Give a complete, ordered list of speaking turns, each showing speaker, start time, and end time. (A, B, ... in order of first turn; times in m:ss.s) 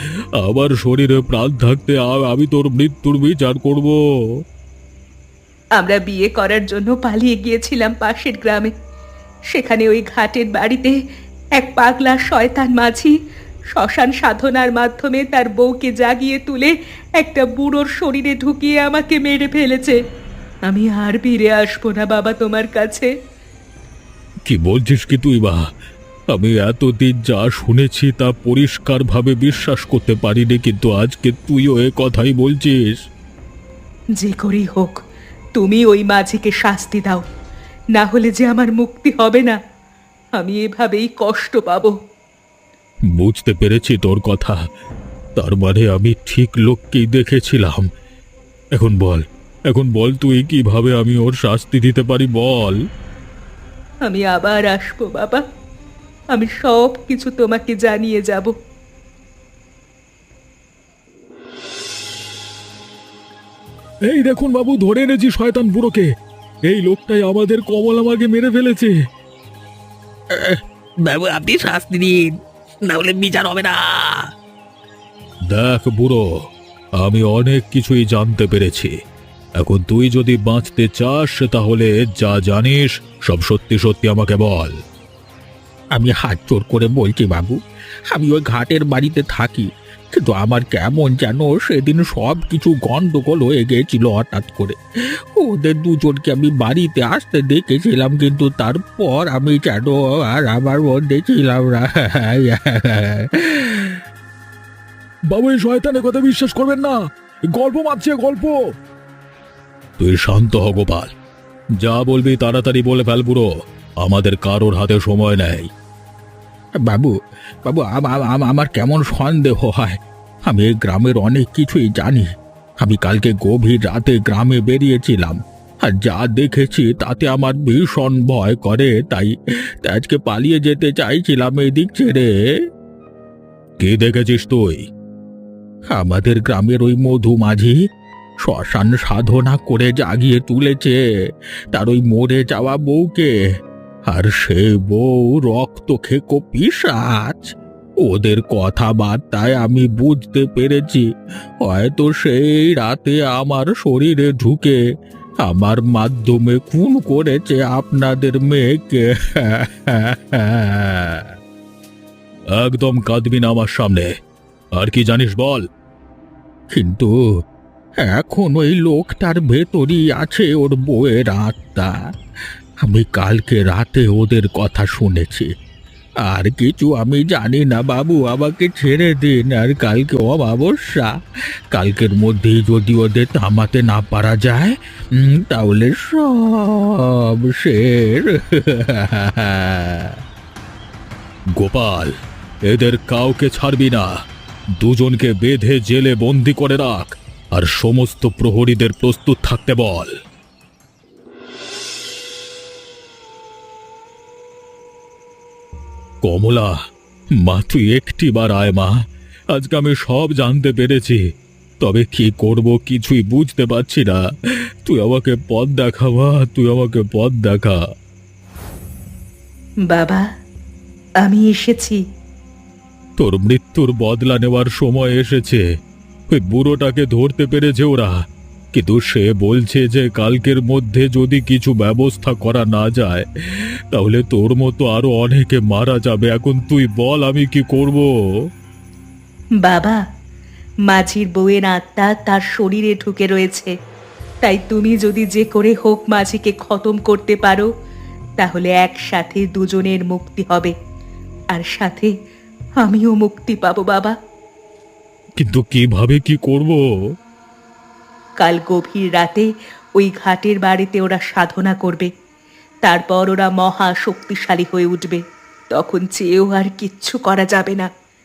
0:00.4-0:04.0 A
0:05.8-0:08.7 B
0:09.5-0:10.9 B
0:11.6-0:13.1 B
0:13.8-0:20.0 B
0:20.7-0:23.1 B
0:24.5-0:25.6 A
0:26.3-0:33.0 A
0:34.2-0:35.0 B
0:35.6-0:37.2 B
0:37.9-0:39.6 B
0:40.4-0:41.9 B
0:43.1-0:44.6 A
0:45.4-0:47.9 A
0:48.8-0:52.8 A
0:54.1-0:55.4 B
0:56.3-0:58.5 B
1:04.1-1:06.1 A
1:06.7-1:08.9 A
1:10.4-1:12.2 C
1:12.9-1:14.2 C
1:15.5-1:16.2 A
1:17.0-1:18.9 A
1:19.6-1:24.7 A
1:25.9-1:27.6 C
1:28.1-1:34.8 C
1:35.4-1:44.0 C
1:45.3-1:48.7 A
1:50.0-1:51.1 A
1:51.8-1:53.5 A
1:54.0-1:55.7 A
1:56.8-1:57.1 C
1:57.6-2:02.3 C
2:02.8-2:12.3 C
2:13.8-2:14.9 A
2:15.9-2:17.8 C
2:18.4-2:21.0 C
2:21.7-2:23.3 C
2:24.1-2:31.1 C
2:31.6-2:34.8 C
2:35.4-2:41.3 C
2:42.5-2:44.1 A
2:44.8-2:45.6 A
2:46.7-2:47.1 C
2:48.0-2:51.9 C
2:52.8-2:55.5 C
2:56.2-3:01.1 C
3:01.7-3:10.2 C
3:11.6-3:12.1 A
3:12.7-3:14.1 A
3:14.8-3:20.1 A
3:26.2-3:26.7 A
3:27.4-3:28.9 A
3:29.5-3:31.2 A
3:31.8-3:34.2 A
3:34.8-3:37.8 A
3:39.9-3:40.2 B
3:41.2-3:42.0 B
3:43.2-3:45.6 A
3:46.3-3:48.2 A
3:48.7-3:53.2 A
3:53.9-3:58.1 A
3:59.6-4:00.0 B
4:00.9-4:03.7 B
4:04.4-4:07.7 B
4:08.4-4:10.7 B
4:11.5-4:12.1 B
4:12.8-4:14.1 B
4:15.4-4:16.8 A
4:18.4-4:22.1 B
4:22.8-4:25.2 B
4:25.7-4:27.9 B